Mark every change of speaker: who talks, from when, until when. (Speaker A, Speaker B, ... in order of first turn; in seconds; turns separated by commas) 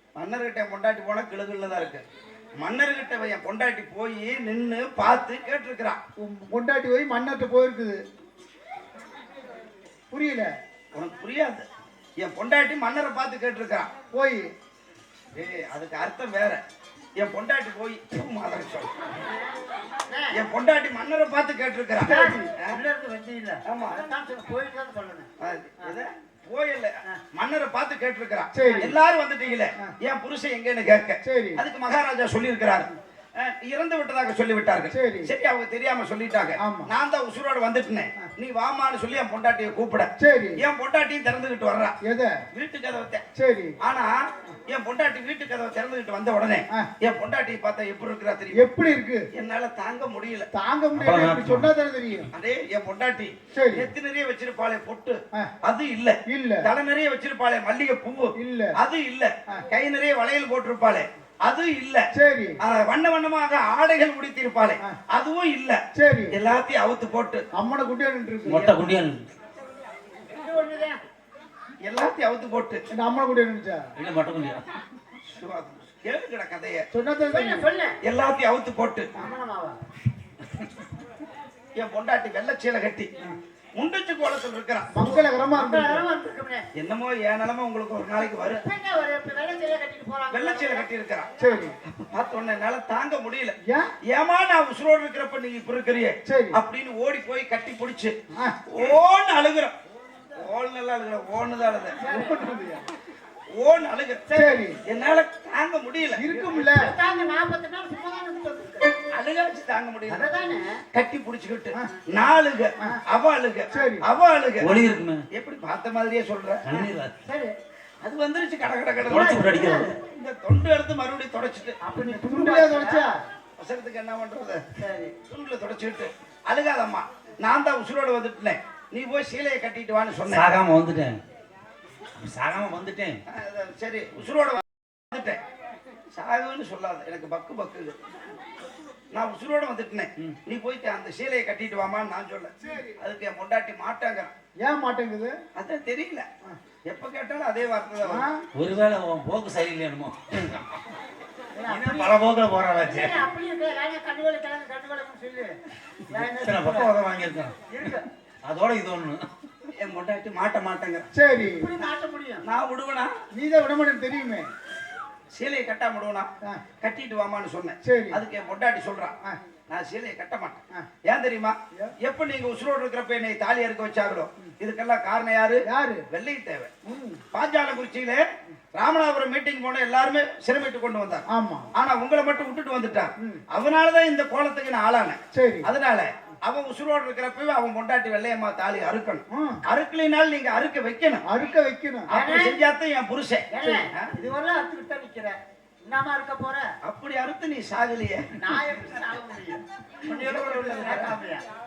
Speaker A: 0.1-2.0, Speaker A: 2.6-6.0, Speaker B: 6.2-8.0, Speaker B: 10.1-10.5, Speaker A: 10.9-11.6, Speaker A: 12.2-13.9, Speaker B: 14.1-14.5, Speaker A: 15.3-16.6, Speaker A: 17.2-19.2, Speaker C: 20.1-20.4, Speaker A: 20.3-22.8, Speaker B: 22.0-22.5, Speaker C: 22.0-25.3, Speaker A: 23.6-23.9, Speaker A: 25.4-42.0, Speaker B: 28.5-28.9, Speaker C: 28.6-28.9, Speaker B: 31.2-31.6, Speaker B: 34.9-35.3, Speaker B: 36.6-36.9, Speaker B: 40.2-40.6, Speaker B: 42.0-42.4, Speaker A: 42.5-43.2, Speaker B: 43.4-43.8, Speaker A: 43.8-48.7, Speaker B: 48.5-49.3, Speaker A: 49.3-50.5, Speaker B: 50.5-52.3, Speaker D: 50.9-51.7, Speaker A: 52.3-62.0, Speaker B: 53.5-53.9, Speaker B: 56.3-56.7, Speaker B: 58.4-58.8, Speaker B: 62.1-62.6, Speaker A: 62.6-65.8, Speaker B: 65.9-66.3, Speaker A: 66.3-67.4, Speaker B: 67.5-68.9, Speaker D: 68.5-69.3, Speaker C: 70.3-71.0, Speaker A: 71.8-72.8, Speaker B: 72.9-73.9, Speaker D: 74.0-74.6, Speaker A: 75.2-76.8, Speaker B: 76.9-77.6, Speaker C: 77.2-78.0, Speaker A: 78.0-79.1, Speaker C: 79.2-79.8, Speaker A: 81.7-83.1, Speaker A: 83.8-85.1, Speaker B: 84.9-86.0, Speaker C: 85.5-86.7, Speaker A: 86.7-88.6, Speaker C: 88.2-90.9, Speaker A: 90.3-91.3, Speaker B: 91.4-91.8, Speaker A: 91.8-98.1, Speaker B: 93.6-93.9, Speaker B: 96.2-96.6, Speaker A: 98.7-99.8, Speaker A: 100.3-102.2, Speaker B: 102.0-102.8, Speaker C: 102.1-102.4, Speaker A: 103.6-106.5, Speaker C: 104.3-104.6, Speaker B: 104.3-104.8, Speaker B: 106.1-106.9, Speaker C: 106.5-109.0, Speaker A: 109.1-110.3, Speaker C: 110.1-110.8, Speaker A: 110.9-116.9, Speaker B: 113.7-114.0, Speaker D: 114.6-115.2, Speaker D: 116.6-117.1, Speaker C: 117.2-117.5, Speaker A: 118.0-121.8, Speaker D: 119.0-119.9, Speaker C: 119.0-119.9, Speaker C: 121.8-123.2, Speaker B: 122.0-123.1, Speaker A: 123.6-124.6, Speaker C: 124.8-125.1, Speaker A: 125.3-130.5, Speaker D: 130.3-131.2, Speaker D: 132.2-133.2, Speaker A: 133.3-135.4, Speaker A: 136.1-138.2, Speaker A: 139.1-144.3, Speaker B: 142.6-143.0, Speaker B: 144.6-145.4, Speaker A: 145.5-146.3, Speaker A: 146.8-148.3, Speaker B: 148.0-148.4, Speaker D: 148.5-150.6, Speaker C: 151.5-152.2, Speaker D: 151.7-153.2, Speaker C: 152.8-156.9, Speaker D: 156.4-157.6, Speaker C: 157.7-158.1, Speaker D: 158.4-159.3, Speaker A: 159.7-161.1, Speaker B: 161.1-161.7, Speaker C: 161.5-162.4, Speaker A: 162.4-163.1, Speaker B: 163.3-164.5, Speaker A: 165.3-166.3, Speaker A: 166.8-169.2, Speaker B: 167.8-168.2, Speaker A: 169.7-176.7, Speaker B: 175.7-176.1, Speaker B: 176.8-177.2, Speaker A: 177.3-178.2, Speaker A: 178.7-191.2, Speaker B: 181.3-181.7, Speaker B: 185.3-185.7, Speaker B: 189.3-189.6, Speaker B: 191.2-192.1, Speaker A: 192.1-194.1, Speaker C: 192.1-192.6, Speaker C: 193.5-196.7, Speaker A: 196.8-198.3, Speaker C: 198.4-201.4, Speaker A: 200.0-201.2